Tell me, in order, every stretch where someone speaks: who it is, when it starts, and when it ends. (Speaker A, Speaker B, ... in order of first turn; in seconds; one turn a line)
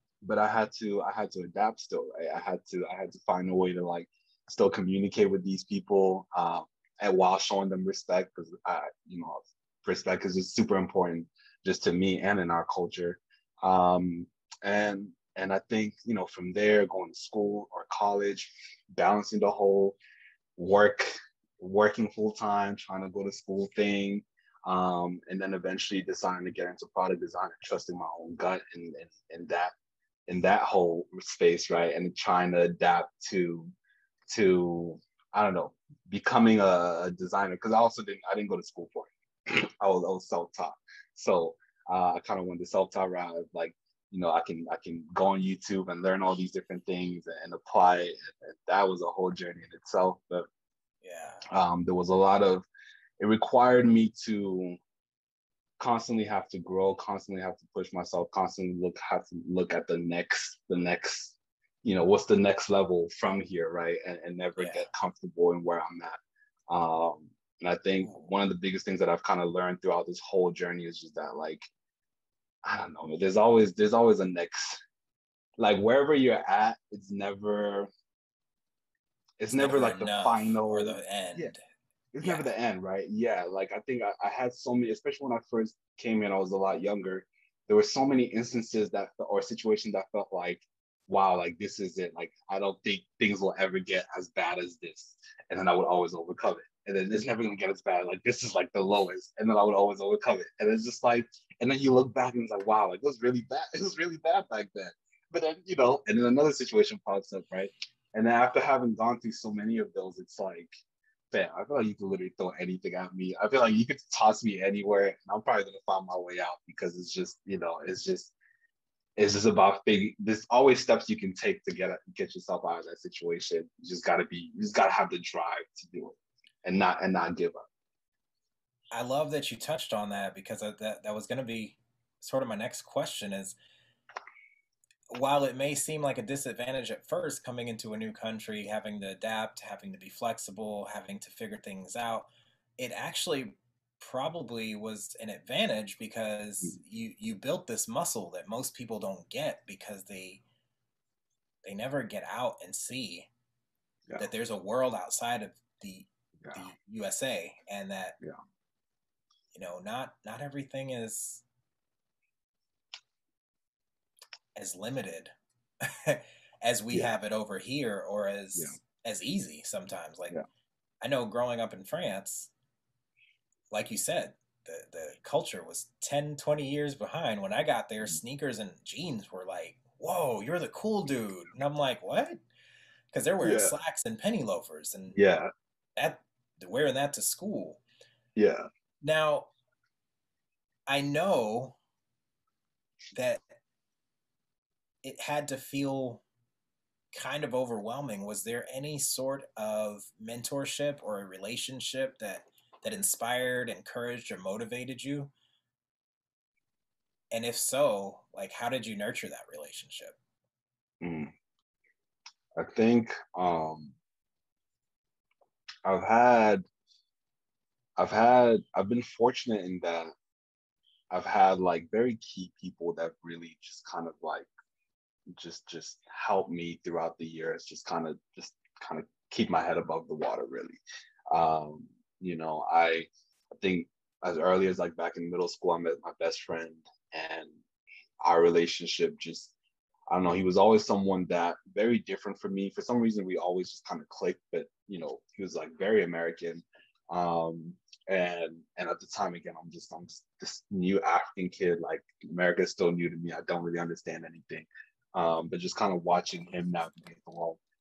Speaker A: 0.2-20.0
Speaker A: 20.6-29.7
Speaker A: 30.3-33.7
Speaker A: 34.3-50.5
Speaker B: 51.0-51.4
Speaker A: 51.5-52.6
Speaker A: 53.2-54.8
Speaker A: 55.8-66.2
Speaker B: 64.6-64.9
Speaker A: 66.7-71.6
Speaker B: 68.0-68.3
Speaker A: 72.6-74.8
Speaker A: 75.6-77.9
Speaker A: 79.4-81.5
Speaker B: 79.5-81.6
Speaker A: 82.1-110.7
Speaker B: 82.2-82.5
Speaker A: 111.3-118.3
Speaker A: 119.2-127.6
Speaker B: 128.9-133.6
Speaker B: 135.1-142.3
Speaker B: 142.8-150.4
Speaker B: 151.6-153.3
Speaker B: 154.2-158.2
Speaker B: 159.5-161.4
Speaker B: 164.6-165.3
Speaker B: 165.8-170.4
Speaker B: 171.0-172.5
Speaker B: 173.7-182.4
Speaker B: 183.1-185.2
Speaker A: 183.4-183.8
Speaker A: 185.1-185.5
Speaker B: 186.0-187.8
Speaker A: 188.4-188.6
Speaker B: 189.0-189.5
Speaker B: 190.9-191.8
Speaker B: 193.1-193.5
Speaker B: 195.0-196.2
Speaker B: 197.1-205.3
Speaker B: 207.3-210.2
Speaker A: 211.0-211.3
Speaker A: 212.6-213.9
Speaker A: 215.8-216.6
Speaker A: 218.0-220.1
Speaker A: 221.1-224.5
Speaker A: 225.4-230.8
Speaker A: 231.3-237.6
Speaker A: 238.2-239.5
Speaker A: 240.1-257.6